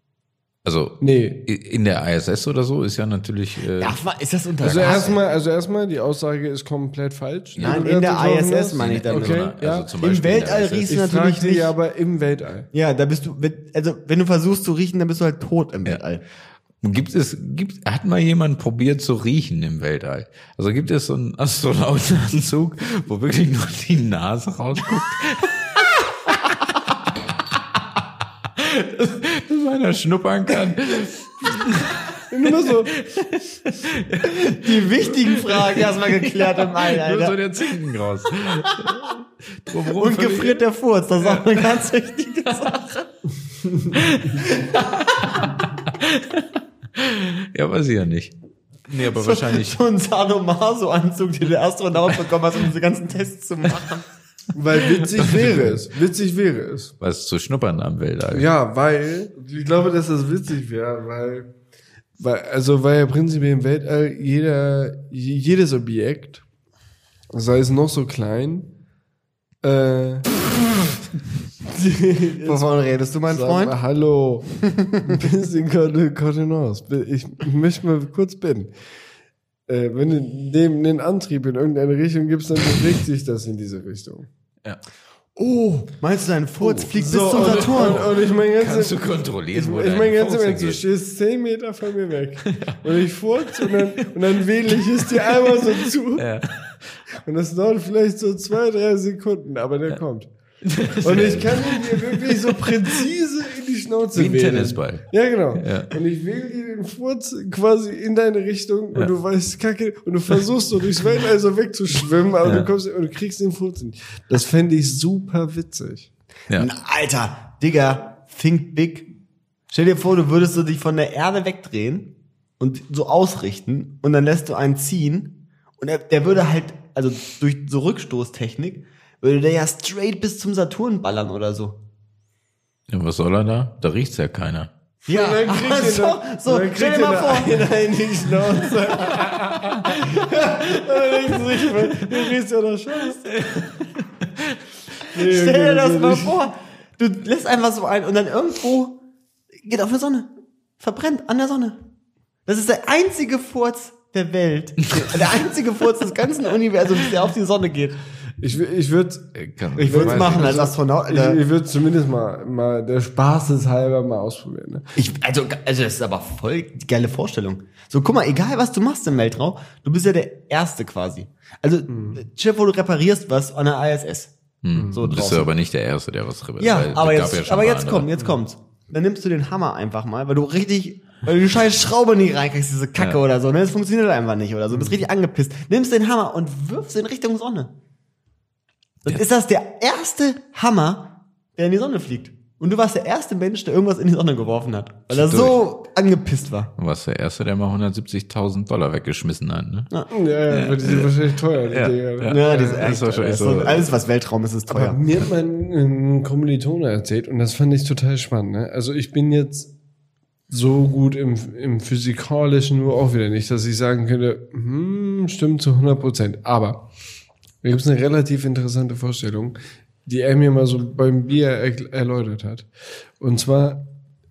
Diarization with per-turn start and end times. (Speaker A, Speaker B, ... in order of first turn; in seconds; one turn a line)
Speaker A: 0.7-4.0
Speaker B: 1.0-1.4
Speaker C: 3.8-5.2
Speaker A: 4.6-5.1
Speaker B: 4.6-9.9
Speaker A: 7.6-7.8
Speaker C: 7.6-11.7
Speaker A: 8.8-10.9
Speaker B: 10.9-12.7
Speaker C: 12.7-16.2
Speaker A: 16.8-26.8
Speaker A: 28.6-40.7
Speaker B: 32.3-33.0
Speaker C: 34.2-37.4
Speaker C: 39.9-43.0
Speaker A: 41.2-41.7
Speaker A: 43.9-44.5
Speaker C: 44.5-45.4
Speaker A: 45.1-46.5
Speaker A: 47.0-48.3
Speaker A: 48.9-49.8
Speaker C: 49.0-54.1
Speaker B: 54.5-56.9
Speaker A: 55.0-55.7
Speaker A: 57.0-58.5
Speaker B: 58.3-61.5
Speaker B: 62.2-66.4
Speaker B: 67.3-68.7
Speaker B: 69.6-70.3
Speaker B: 71.7-72.6
Speaker C: 72.5-73.8
Speaker B: 73.3-78.7
Speaker C: 74.6-75.2
Speaker B: 79.7-84.3
Speaker C: 85.4-88.1
Speaker B: 86.6-96.2
Speaker A: 87.3-90.8
Speaker A: 92.5-92.8
Speaker A: 93.5-94.1
Speaker A: 95.2-96.8
Speaker B: 97.2-100.3
Speaker A: 100.6-102.9
Speaker B: 101.0-116.1
Speaker A: 104.2-105.9
Speaker C: 116.5-119.1
Speaker C: 119.7-131.8
Speaker A: 132.9-134.7
Speaker B: 135.1-143.3
Speaker C: 135.1-137.7
Speaker A: 143.3-144.5
Speaker B: 145.1-146.4
Speaker C: 145.2-149.0
Speaker C: 149.6-151.8
Speaker C: 152.5-158.0
Speaker A: 154.9-155.3
Speaker B: 158.4-164.9
Speaker A: 159.4-160.6
Speaker C: 159.8-161.4
Speaker C: 165.0-174.3
Speaker B: 171.9-172.2
Speaker A: 174.6-178.1
Speaker C: 174.9-175.5
Speaker C: 176.6-187.7
Speaker C: 189.1-196.7
Speaker A: 195.1-195.6
Speaker A: 196.8-199.9
Speaker B: 200.1-202.9
Speaker A: 200.5-203.9
Speaker C: 202.3-205.1
Speaker B: 204.7-209.7
Speaker B: 210.5-216.8
Speaker B: 217.6-222.7
Speaker B: 223.2-223.9